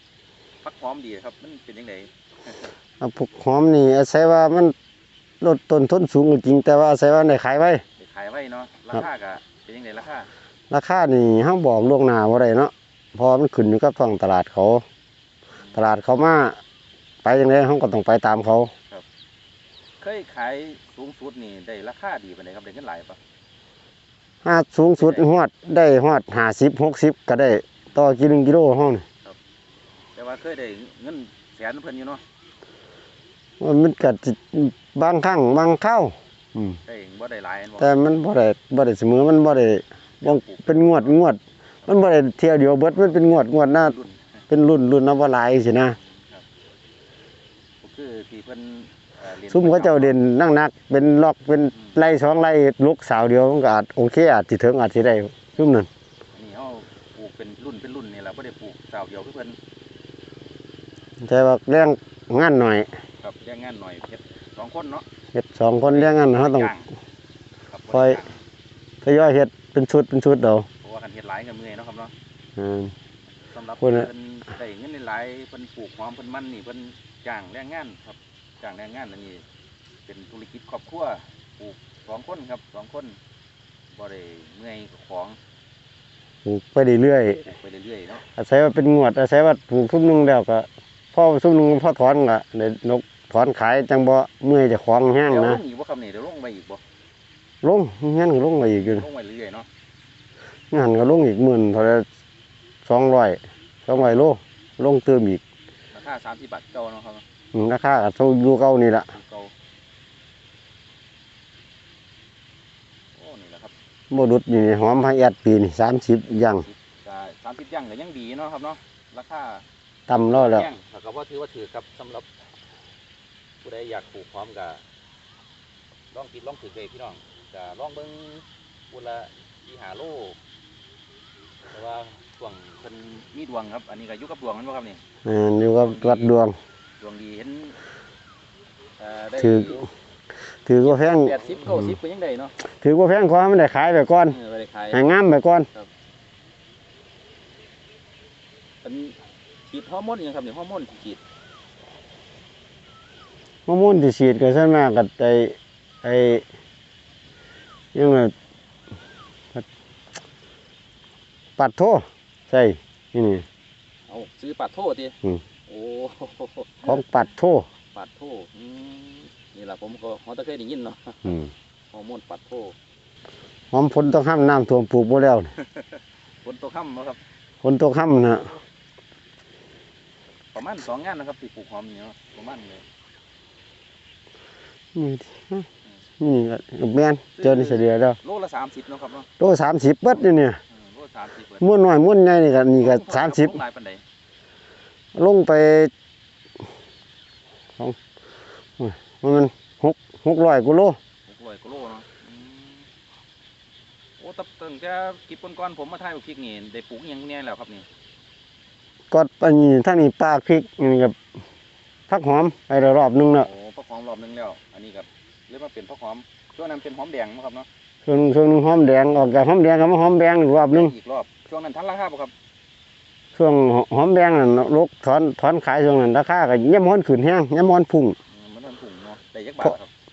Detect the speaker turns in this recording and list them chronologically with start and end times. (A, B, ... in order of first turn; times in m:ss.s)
0:00.6-0:02.7 A
0:03.0-0:04.7 B
0:05.4-0:07.8 B
0:08.0-0:10.3 A
0:10.7-0:14.8 B
0:15.7-0:16.6 B
0:17.2-0:18.7 B
0:20.0-0:23.2 A
0:24.4-0:29.0 B
0:25.0-0:25.3 A
0:30.2-0:32.2 A
0:33.6-0:36.8 B
0:36.9-0:38.0 A
0:37.8-0:43.9 B
0:40.2-0:41.2 A
0:43.8-0:44.4 A
0:44.5-0:46.0 B
0:46.0-0:46.4 A
0:47.8-0:50.2 A
0:49.5-0:55.9 B
0:51.7-0:52.0 A
0:56.3-0:59.6 A
1:01.2-1:02.9 B
1:03.2-1:05.0 A
1:05.3-1:06.7 B
1:05.8-1:06.9 A
1:07.7-1:08.4 A
1:07.9-1:08.2 B
1:09.0-1:10.7 B
1:10.8-1:12.1 A
1:12.6-1:12.9 B
1:13.5-1:19.4 A
1:13.8-1:14.1 B
1:20.1-1:23.2 A
1:23.9-1:25.4 A
1:26.4-1:27.5 B
1:27.4-1:28.2 A
1:28.3-1:35.6 B
1:35.3-1:36.8 A
1:37.6-1:39.1 B
1:38.7-1:39.7 A
1:40.7-1:42.0 B
1:42.8-1:45.4 B
1:45.9-1:47.2 A
1:47.5-1:49.1 B
1:49.1-1:49.5 A
1:53.2-1:53.7 A
1:54.1-1:56.7 B
1:56.6-1:59.6 A
2:00.1-2:00.7 B
2:00.3-2:02.3 A
2:03.6-2:04.8 A
2:06.1-2:10.4 A
2:11.7-2:15.0 A
2:15.2-2:16.6 B
2:15.7-2:16.4 A
2:17.0-2:17.8 A
2:19.0-2:19.9 A
2:19.4-2:19.9 B
2:20.7-2:22.0 B
2:20.8-2:22.6 A
2:22.8-2:24.4 B
2:24.3-2:25.0 A
2:24.9-2:25.7 B
2:28.8-2:31.2 A
2:33.7-2:36.4 B
2:37.9-2:38.3 B
2:41.6-2:43.4 B
2:44.1-2:47.3 A
2:46.8-2:47.7 B
2:47.9-2:51.4 A
2:51.2-2:51.5 B
2:51.9-2:52.8 A
2:53.7-2:55.5 B
2:55.6-2:57.2 A
2:57.6-2:58.5 B
3:00.5-3:02.8 A
3:05.0-3:05.7 B
3:06.2-3:08.2 B
3:07.4-3:09.3 A
3:09.4-3:10.6 B
3:10.7-3:11.7 A
3:11.6-3:13.6 B
3:12.8-3:14.0 A
3:15.1-3:15.9 B
3:18.8-3:21.0 B
3:21.3-3:22.9 A
3:24.2-3:27.9 A
3:29.1-3:31.2 B
3:32.1-3:33.5 B
3:33.4-3:37.7 A
3:38.1-3:40.9 B
3:40.6-3:42.3 A
3:43.4-3:48.2 B
3:48.3-3:49.9 A